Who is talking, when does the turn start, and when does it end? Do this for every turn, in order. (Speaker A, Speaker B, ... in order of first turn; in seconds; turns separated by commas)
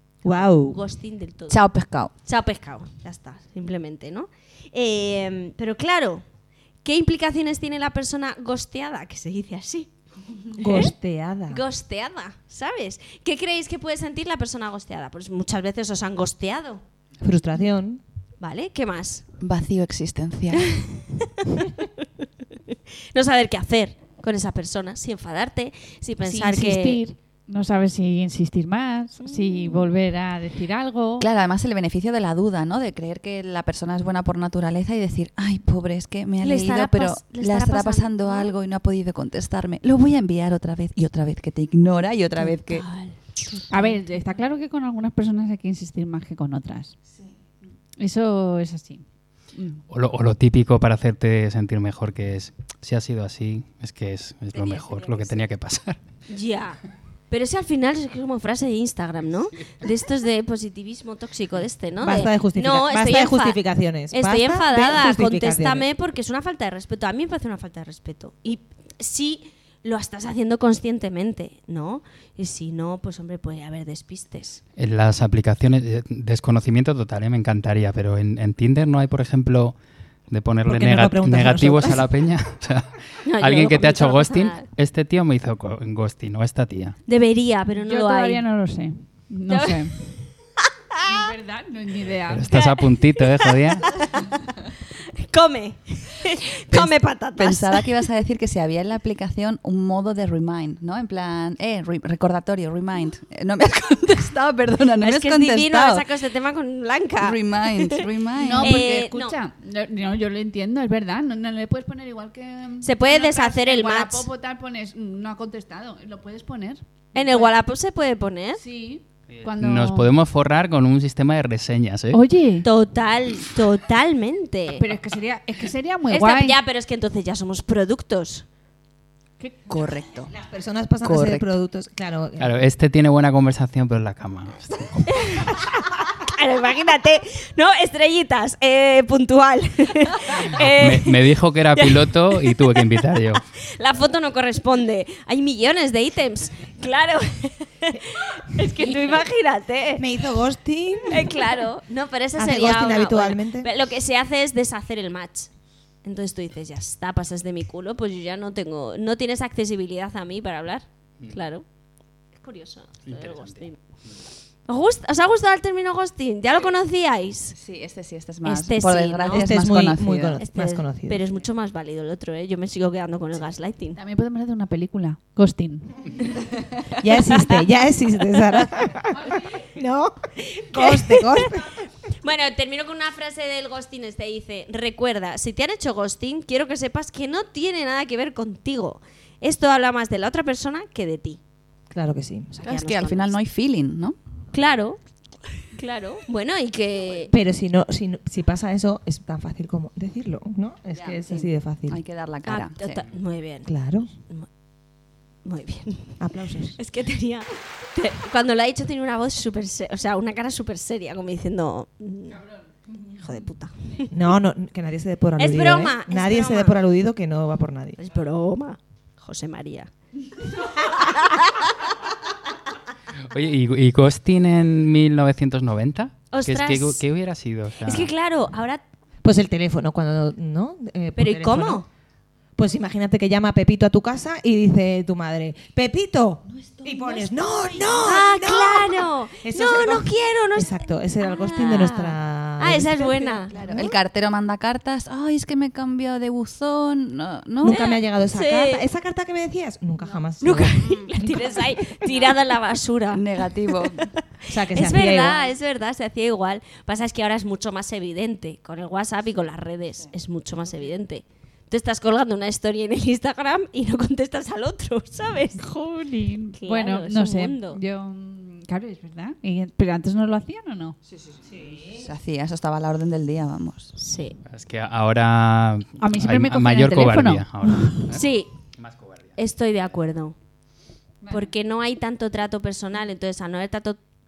Speaker A: 0.2-1.6, Speaker B: 0.2-0.8, Speaker C: 1.5-2.1, Speaker A: 2.2-6.2, Speaker A: 6.8-9.9, Speaker A: 10.6-10.9, Speaker B: 10.6-11.6, Speaker A: 11.5-16.8, Speaker B: 17.2-18.0, Speaker A: 18.4-19.2, Speaker C: 19.4-20.8, Speaker A: 20.6-27.0, Speaker D: 26.2-31.3, Speaker A: 29.2-29.9, Speaker C: 31.2-42.9, Speaker A: 36.4-38.5, Speaker A: 42.4-44.0, Speaker D: 43.7-46.9, Speaker D: 48.0-49.0, Speaker D: 49.5-49.8, Speaker E: 49.9-56.0, Speaker A: 54.5-55.4, Speaker A: 56.3-63.6, Speaker B: 62.0-65.8, Speaker A: 64.1-74.6, Speaker E: 74.8-79.7, Speaker E: 80.3-87.0, Speaker B: 80.7-82.0, Speaker A: 83.2-84.6, Speaker A: 87.1-88.4, Speaker D: 87.8-90.0, Speaker A: 89.5-91.1, Speaker D: 91.0-92.6, Speaker E: 92.3-94.0, Speaker A: 92.5-97.9, Speaker C: 96.7-106.1, Speaker A: 105.0-109.3, Speaker C: 107.2-108.8, Speaker D: 108.4-117.6, Speaker A: 112.8-114.3, Speaker A: 117.1-118.6, Speaker D: 118.6-120.1, Speaker E: 119.3-122.2, Speaker D: 122.1-122.7, Speaker A: 122.6-124.9, Speaker D: 124.8-126.6, Speaker A: 126.1-128.4, Speaker C: 129.7-130.3, Speaker B: 130.3-132.6, Speaker C: 131.0-131.5, Speaker E: 132.4-135.4, Speaker A: 135.1-150.1, Speaker E: 140.5-143.4, Speaker B: 150.0-151.6, Speaker A: 151.1-155.5, Speaker B: 152.3-153.7, Speaker A: 156.0-161.6, Speaker A: 162.3-163.8, Speaker E: 163.1-163.7, Speaker A: 164.7-167.6, Speaker C: 167.6-170.4, Speaker A: 168.4-169.5, Speaker B: 169.3-171.2, Speaker A: 170.4-174.0, Speaker D: 173.9-176.1, Speaker B: 177.0-181.7, Speaker A: 177.2-177.6, Speaker A: 180.4-181.6, Speaker A: 182.2-191.4, Speaker B: 191.9-192.6, Speaker A: 192.5-193.3, Speaker C: 192.6-194.2, Speaker A: 194.5-195.0, Speaker A: 195.7-197.3, Speaker B: 197.3-202.0, Speaker C: 200.9-203.0, Speaker A: 202.4-203.7, Speaker B: 203.7-204.1, Speaker A: 205.4-206.2, Speaker B: 206.2-206.8, Speaker A: 206.8-212.4, Speaker A: 213.1-214.1, Speaker B: 214.1-218.0, Speaker A: 215.4-216.8, Speaker A: 218.0-219.9, Speaker A: 220.5-221.7, Speaker E: 223.3-228.1, Speaker A: 226.3-227.0, Speaker A: 227.8-228.8, Speaker B: 229.2-231.8, Speaker A: 231.2-231.8, Speaker B: 232.6-243.9, Speaker C: 236.5-238.1, Speaker A: 238.0-243.9, Speaker C: 243.5-247.8, Speaker B: 247.6-252.3, Speaker A: 247.6-248.9, Speaker A: 250.4-265.6, Speaker C: 250.8-251.1, Speaker C: 253.1-254.1, Speaker B: 254.5-255.5, Speaker D: 265.6-271.0, Speaker A: 266.6-267.8, Speaker B: 271.5-272.1, Speaker C: 271.9-273.9, Speaker A: 274.0-274.4, Speaker E: 274.5-279.3, Speaker D: 276.0-278.1, Speaker A: 278.1-278.5, Speaker A: 279.4-280.4, Speaker D: 281.2-281.5, Speaker A: 281.3-284.0